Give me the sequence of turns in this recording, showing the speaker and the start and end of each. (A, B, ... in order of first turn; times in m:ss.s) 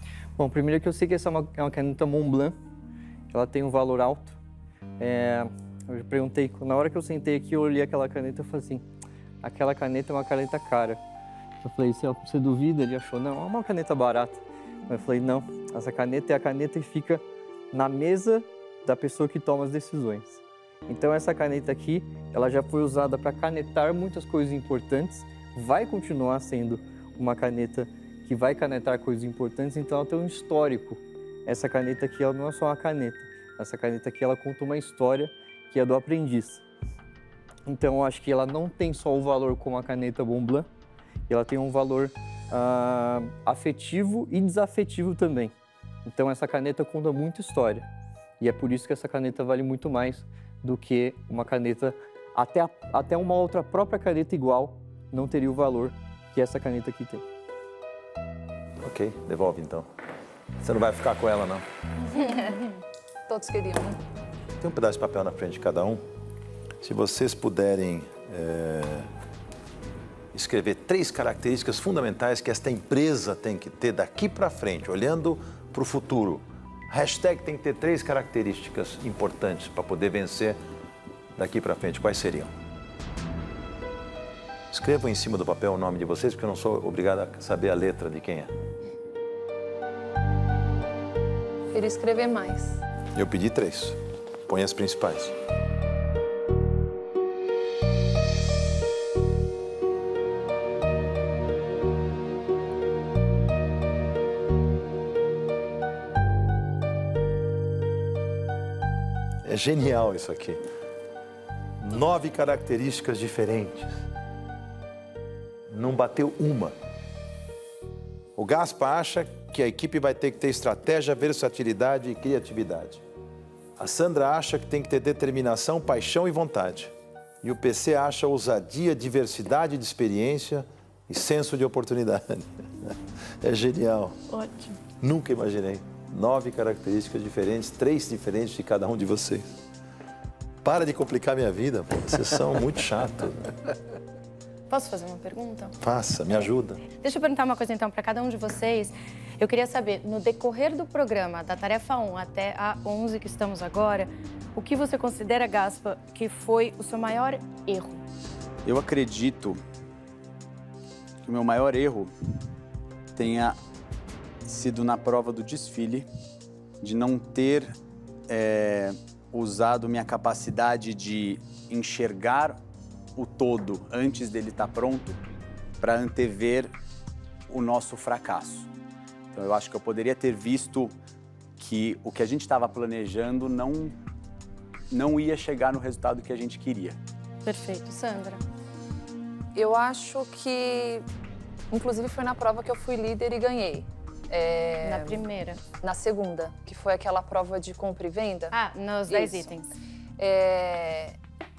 0:00.4-0:02.6 A
0:03.3-0:04.4 A
0:05.0-0:08.8 A
0:09.4-0:11.0 A
0:11.6-0:36.6 A
0:37.7-0:40.7 A
0:41.3-0:45.5 A
0:46.0-0:47.9 A
0:48.4-0:57.2 A
0:58.8-0:59.9 B
1:00.6-1:01.6 B
1:02.1-1:02.7 C
1:03.3-1:04.0 C
1:04.6-1:06.0 B
1:06.8-1:09.1 B
1:10.3-1:20.6 B
1:21.4-1:22.5 B
1:24.7-1:28.5 B
1:31.7-1:32.8 C
1:33.2-1:35.3 B
1:49.4-1:50.6 B
1:51.8-1:54.0 B
1:55.7-1:56.7 B
1:58.4-2:03.0 B
2:03.8-2:12.7 B
2:13.4-2:14.2 B
2:14.3-2:14.8 D
2:15.0-2:19.5 B
2:20.6-2:23.6 B
2:24.7-2:25.8 D
2:25.8-2:26.8 B
2:27.0-2:38.0 D
2:38.6-2:39.6 E
2:41.2-2:42.1 E
2:43.2-2:43.6 E
2:44.4-2:46.1 E
2:46.8-2:47.7 E
2:48.3-2:52.6 E
2:53.2-2:55.2 E
2:55.8-2:56.7 E
2:57.5-2:58.7 E
2:59.3-3:01.0 E
3:01.6-3:04.0 E
3:04.9-3:07.0 E
3:07.4-3:08.4 D
3:09.6-3:11.0 C
3:11.7-3:19.5 C
3:14.8-3:15.6 D
3:18.5-3:19.7 D
3:20.2-3:21.2 C